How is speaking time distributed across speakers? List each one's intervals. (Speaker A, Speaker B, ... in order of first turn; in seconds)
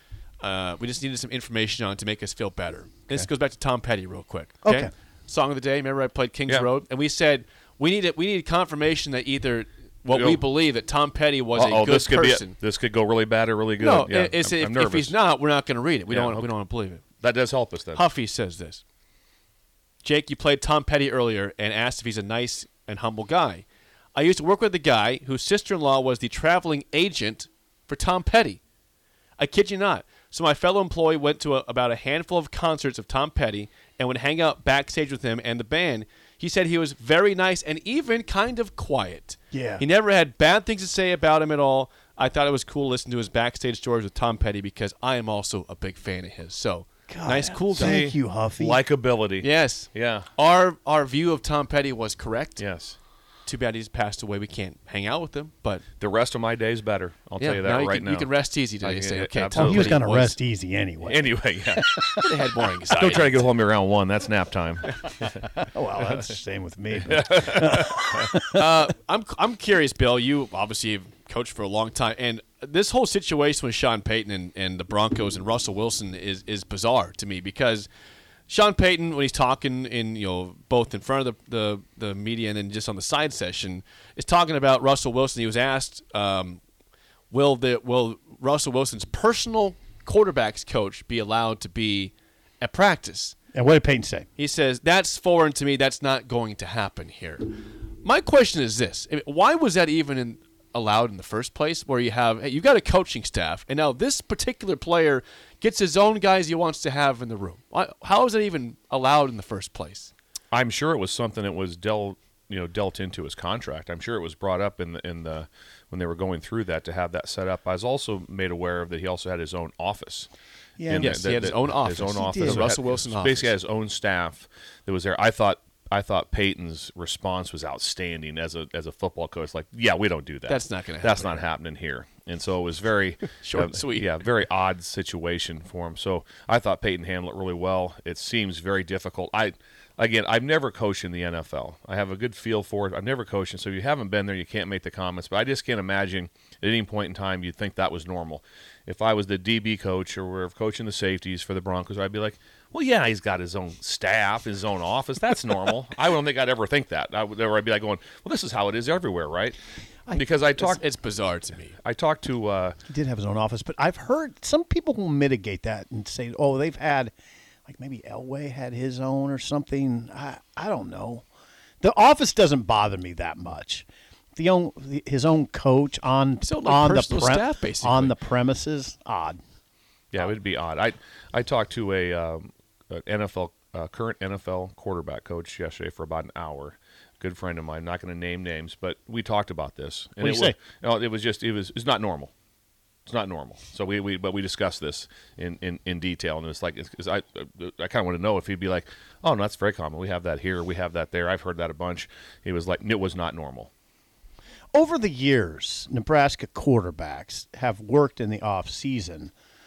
Speaker A: 0.4-12.6, 13.8-17.0, 17.9-18.8, 20.0-28.6, 29.4-48.0, 49.4-52.6, 53.5-55.8, 57.4-60.4, 62.2-63.5, 68.5-77.9, 78.5-86.6, 87.3-93.3, 94.4-97.5, 98.0-110.1, 121.0-123.5, 130.5-131.4, 133.4-134.1, 160.6-161.8, 176.4-178.1
Speaker B: 4.6-4.9, 39.5-39.8, 47.1-48.8, 59.5-62.5, 65.6-68.6, 93.5-94.3, 120.8-121.3, 122.1-122.6, 162.9-167.1, 167.7-171.2, 171.8-179.4, 190.2-190.6, 204.7-209.3
Speaker C: 10.1-10.4, 11.5-15.2, 16.1-16.5, 17.2-18.0, 47.7-50.3, 52.6-53.0, 56.0-60.0, 61.0-62.2, 63.0-66.3, 67.0-68.3, 110.5-120.3, 120.8-159.6, 160.1-160.8, 161.8-162.8, 180.1-192.3, 193.1-203.7